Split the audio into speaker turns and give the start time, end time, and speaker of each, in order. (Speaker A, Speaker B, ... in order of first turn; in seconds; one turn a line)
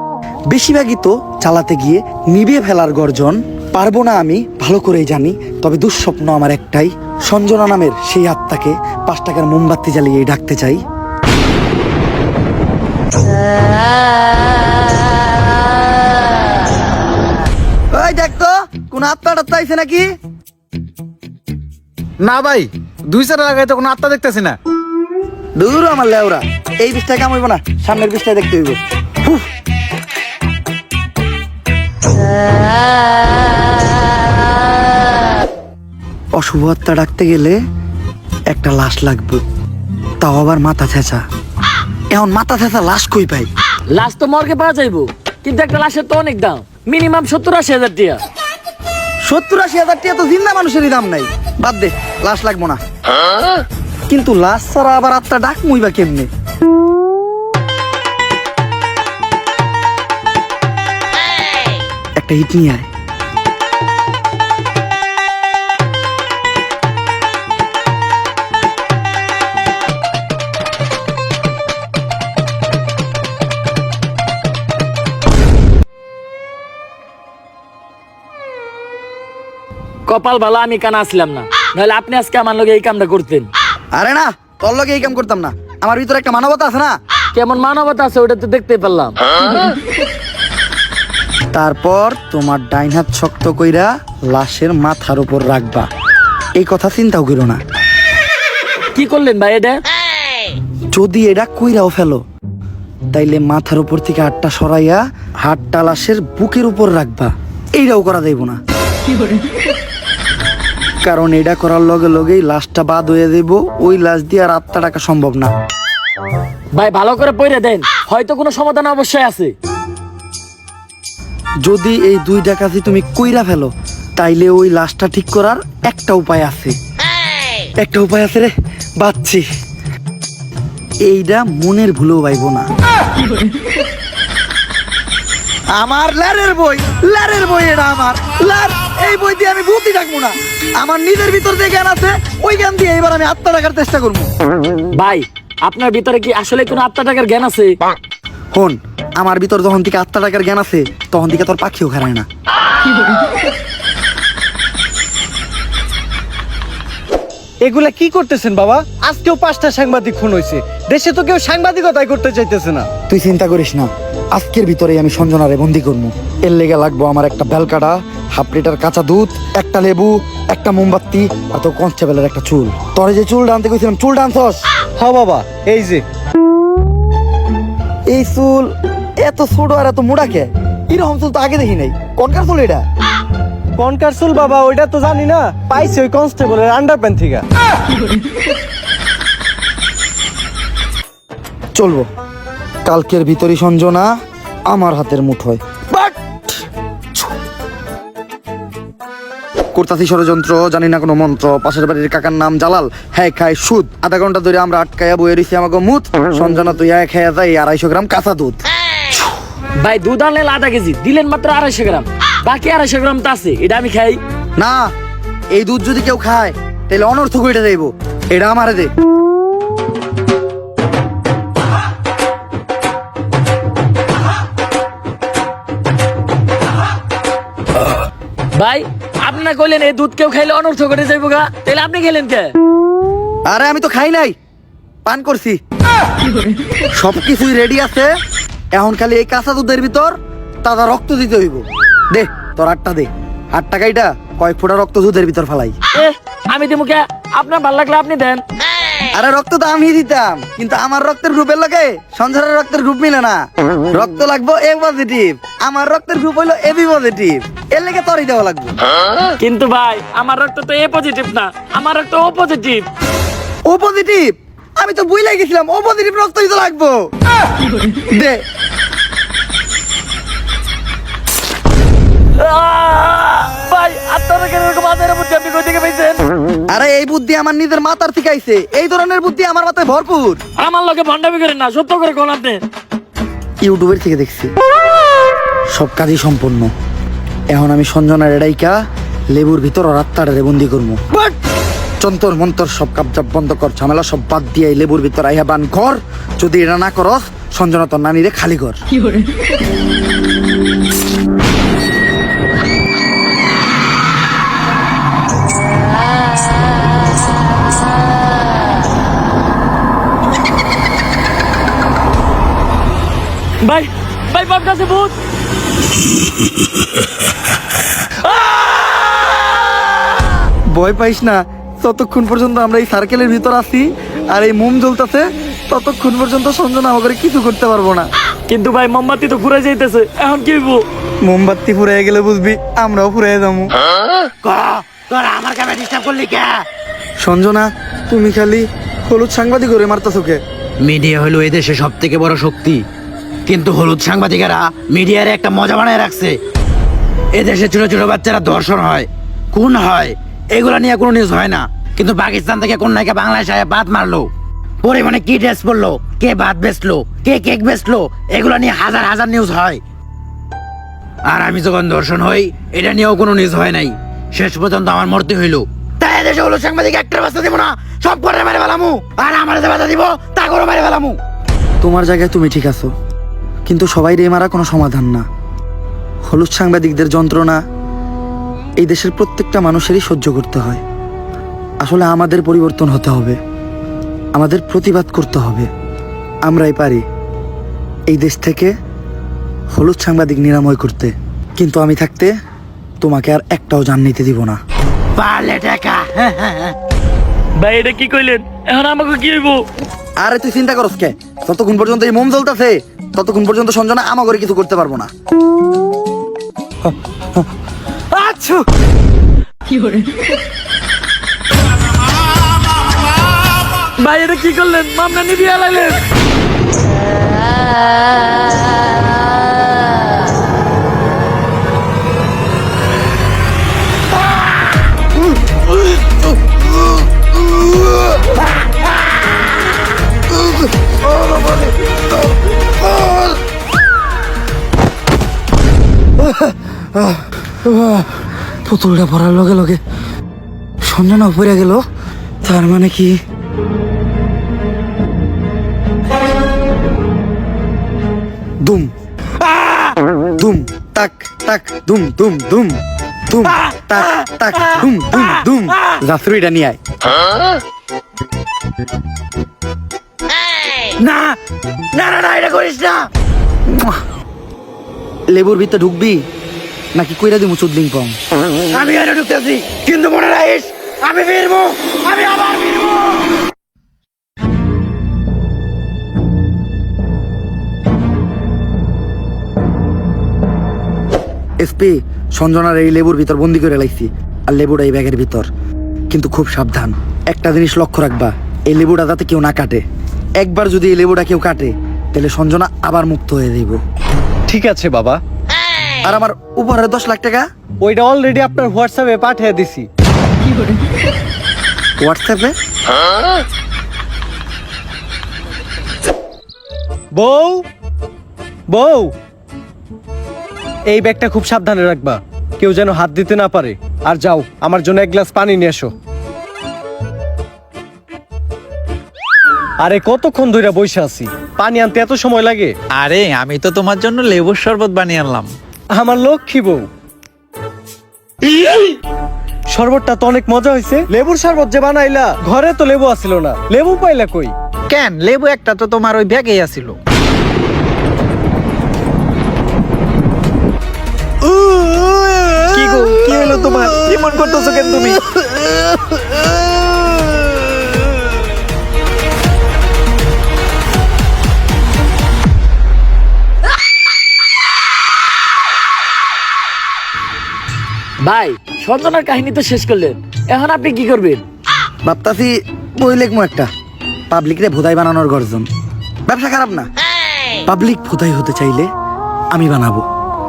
Speaker A: 0.5-10.8
Speaker A: 17.9-20.1
Speaker B: 22.2-24.5
Speaker A: 25.6-29.4
Speaker A: 36.4-37.6
Speaker A: 38.5-39.4
Speaker A: 40.2-41.2
Speaker A: 42.1-43.5
Speaker C: 43.9-48.2
Speaker A: 49.3-52.8
Speaker A: 54.1-56.3
Speaker A: 62.2-62.9
Speaker C: 80.1-83.5
Speaker A: 84.0-86.9
Speaker C: 87.3-89.7
Speaker A: 91.5-95.9
Speaker A: 96.6-97.6
Speaker C: 98.9-99.8
Speaker A: 100.9-102.2
Speaker A: 103.1-108.6
Speaker A: 111.0-115.5
Speaker C: 116.8-119.5
Speaker A: 121.7-126.7
Speaker A: 127.8-129.4
Speaker A: 131.1-132.7
Speaker A: 135.7-144.3
Speaker C: 144.9-147.8
Speaker A: 148.5-152.2
Speaker D: 157.6-162.9
Speaker A: 163.1-174.6
Speaker D: 175.0-176.0
Speaker A: 178.1-178.7
Speaker A: 179.2-182.8
Speaker D: 183.8-187.4
Speaker A: 191.7-192.1
Speaker A: 192.8-194.1
Speaker A: 194.7-196.1
Speaker A: 199.7-208.6
Speaker C: 209.8-214.2
Speaker A: 214.6-214.8
Speaker A: 215.6-218.9
Speaker C: 228.6-232.5
Speaker A: 233.5-234.3
Speaker A: 235.1-235.6
Speaker A: 237.0-238.1
Speaker A: 238.7-245.8
Speaker C: 245.9-248.4
Speaker A: 249.2-253.4
Speaker A: 253.9-258.7
Speaker C: 259.4-262.9
Speaker A: 263.7-267.0
Speaker C: 272.4-276.2
Speaker A: 276.7-280.4
Speaker C: 280.6-282.6
Speaker A: 283.6-284.5
Speaker A: 285.7-286.7
Speaker A: 287.5-288.8
Speaker A: 289.3-291.0
Speaker A: 292.0-298.8
Speaker C: 313.6-315.1
Speaker A: 320.7-328.1
Speaker C: 328.5-330.8
Speaker A: 331.2-333.8
Speaker E: 334.4-336.6
Speaker A: 337.2-340.4
Speaker E: 340.8-342.8
Speaker E: 343.5-346.4
Speaker E: 347.3-354.3
Speaker E: 354.8-359.8
Speaker E: 361.2-371.2
Speaker A: 371.8-372.9
Speaker A: 373.7-375.2
Speaker A: 376.3-377.6
Speaker A: 378.8-380.8
Speaker A: 381.8-383.4
Speaker A: 384.3-385.7
Speaker A: 386.4-387.0
Speaker A: 388.1-388.7
Speaker A: 389.7-392.3
Speaker A: 393.0-394.6
Speaker E: 395.1-396.7
Speaker C: 397.6-399.6
Speaker A: 400.2-405.1
Speaker A: 406.9-407.4
Speaker A: 408.1-408.6
Speaker C: 414.0-416.0
Speaker A: 436.2-438.1
Speaker A: 438.6-439.8
Speaker A: 440.8-441.8
Speaker A: 442.4-443.1
Speaker A: 448.6-448.9
Speaker A: 450.4-456.8
Speaker E: 461.0-461.4
Speaker E: 461.9-463.1
Speaker A: 463.7-464.0
Speaker A: 465.3-466.2
Speaker A: 466.9-468.2
Speaker E: 468.7-473.2
Speaker A: 481.6-485.5
Speaker A: 486.1-489.8
Speaker A: 490.4-493.8
Speaker D: 494.5-495.2
Speaker A: 496.1-497.4
Speaker D: 497.8-499.9
Speaker A: 502.0-502.5
Speaker D: 507.1-507.6
Speaker D: 508.7-509.1
Speaker D: 510.9-515.9
Speaker D: 519.8-522.7
Speaker B: 522.9-525.5
Speaker D: 525.9-526.9
Speaker D: 529.7-534.5
Speaker B: 534.9-537.0
Speaker B: 542.7-545.2
Speaker C: 558.2-561.4
Speaker A: 562.0-563.7
Speaker A: 564.3-565.6
Speaker A: 566.3-566.9
Speaker A: 567.7-568.9
Speaker A: 569.5-570.0